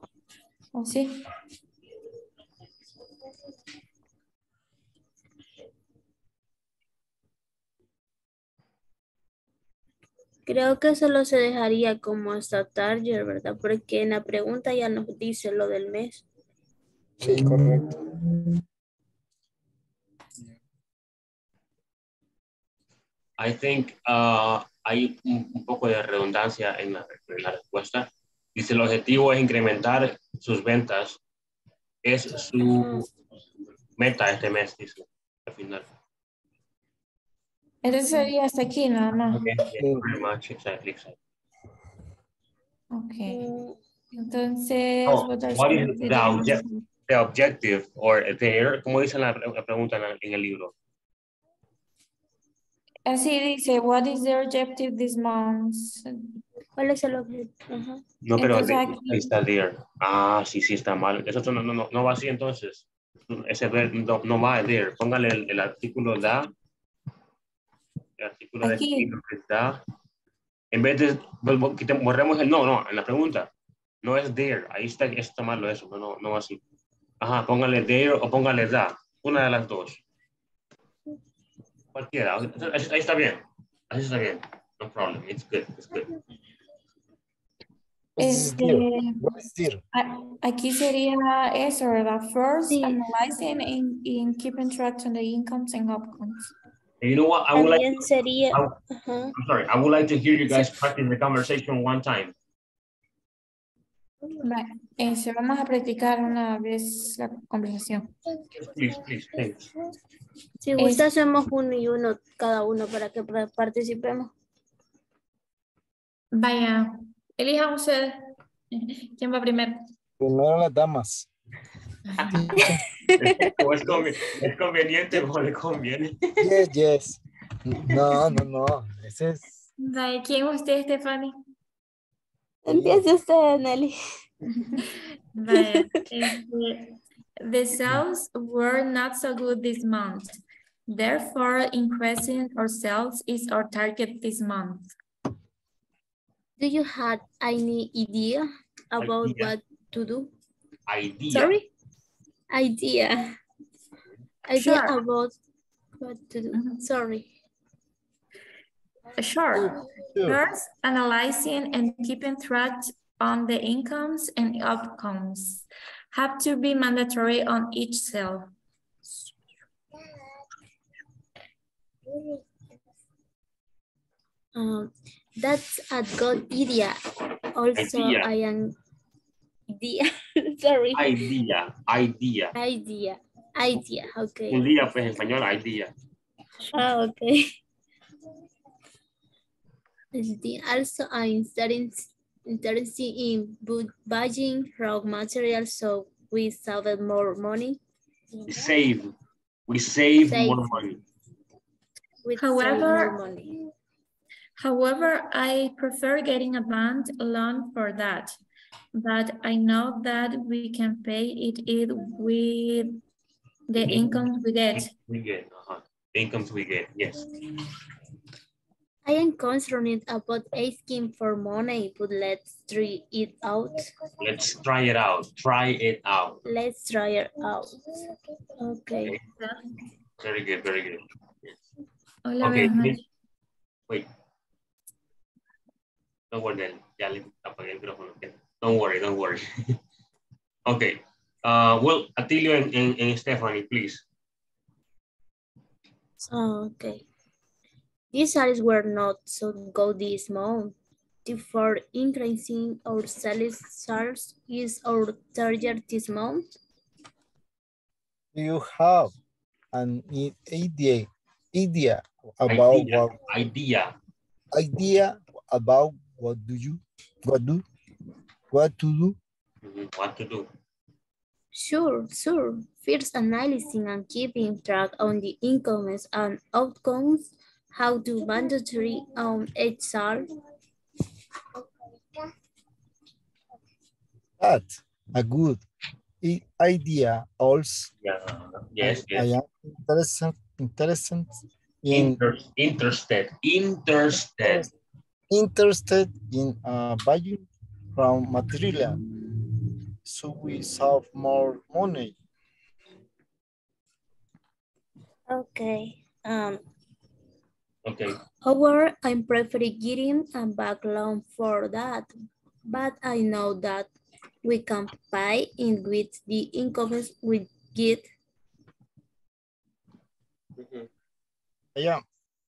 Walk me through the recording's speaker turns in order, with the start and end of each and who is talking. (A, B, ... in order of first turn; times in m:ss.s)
0:00.7-0:01.2 A
0:10.4-0:16.2 B
0:17.2-0:18.0 C
0:23.4-0:31.2 D
0:32.0-0:33.1 D
0:34.0-0:35.8 D
0:37.8-0:39.5 A
0:39.3-0:41.2 D
0:39.8-0:40.0 C
0:42.9-0:43.4 A
0:43.3-0:43.8 B
0:44.1-0:46.8 A
0:45.0-0:50.7 D
0:53.1-0:56.0 A
0:56.8-0:58.0 B
0:58.2-1:06.5 D
0:58.4-0:59.3 A
1:08.2-1:09.8 D
1:08.6-1:09.1 A
1:10.7-1:13.5 D
1:14.0-1:16.6 D
1:17.2-1:20.0 D
1:21.9-1:26.1 D
1:28.2-1:29.3 A
1:28.2-1:29.8 C
1:29.9-1:36.5 A
1:32.6-1:33.0 B
1:37.0-1:38.8 D
1:37.5-1:39.3 B
1:39.3-1:42.3 D
1:44.4-1:48.1 A
1:48.5-1:49.7 D
1:50.6-1:54.3 B
1:50.8-1:51.1 A
1:56.3-1:58.2 A
1:58.7-1:59.7 A
2:00.2-2:01.3 C
2:02.3-2:02.8 C
2:03.2-2:06.2 D
2:06.4-2:09.6 C
2:09.8-2:11.3 A
2:12.6-2:14.0 B
2:15.3-2:16.9 A
2:15.5-2:16.4 B
2:17.4-2:20.4 A
2:20.9-2:24.9 A
2:26.6-2:30.3 B
2:29.0-2:29.5 D
2:30.9-2:31.5 D
2:31.3-2:31.7 B
2:32.5-2:33.3 B
2:34.5-2:35.4 B
2:34.5-2:35.0 A
2:36.0-2:37.3 B
2:36.5-2:36.8 A
2:39.2-2:48.5 A
2:39.5-2:40.4 C
2:52.1-2:52.4 B
2:54.5-2:56.9 B
2:57.6-2:58.7 B
2:57.8-2:58.3 D
2:59.7-3:00.9 B
3:00.9-3:02.5 D
3:02.5-3:04.8 B
3:04.5-3:05.9 D
3:06.7-3:07.4 B
3:10.1-3:17.8 B
3:18.3-3:18.7 B
3:18.5-3:19.1 D
3:19.7-3:21.0 D
3:20.3-3:21.0 B
3:22.2-3:23.5 B
3:22.4-3:23.2 A
3:24.6-3:28.4 A
3:29.0-3:33.0 A
3:33.7-3:34.9 A
3:33.8-3:34.2 D
3:34.7-3:37.3 D
3:39.0-3:43.9 B
3:44.2-3:46.4 D
3:46.4-3:47.8 B
3:48.6-3:49.2 B
3:50.2-3:51.6 D
3:52.2-3:53.0 A
3:52.4-3:53.0 D
3:56.3-3:59.4 D
4:00.6-4:04.0 D
4:06.2-4:07.0 B
4:08.1-4:16.6 B
4:18.3-4:19.1 C
4:19.7-4:23.1 C
4:22.4-4:23.9 D
4:24.5-4:27.6 C
4:28.5-4:29.2 C
4:29.6-4:30.5 D
4:31.5-4:40.3 B
4:44.4-4:45.6 C
4:46.2-4:47.9 C
4:48.0-4:49.3 D
4:48.8-4:52.2 C
4:51.9-4:54.7 D
4:54.4-4:54.7 C
4:55.3-4:59.0 C
5:00.0-5:02.2 C
5:05.3-5:06.6 B
5:07.8-5:08.2 D
5:08.4-5:12.1 B
5:12.7-5:13.9 B
5:14.4-5:18.1 B
5:20.6-5:20.9 D
5:21.7-5:22.0 C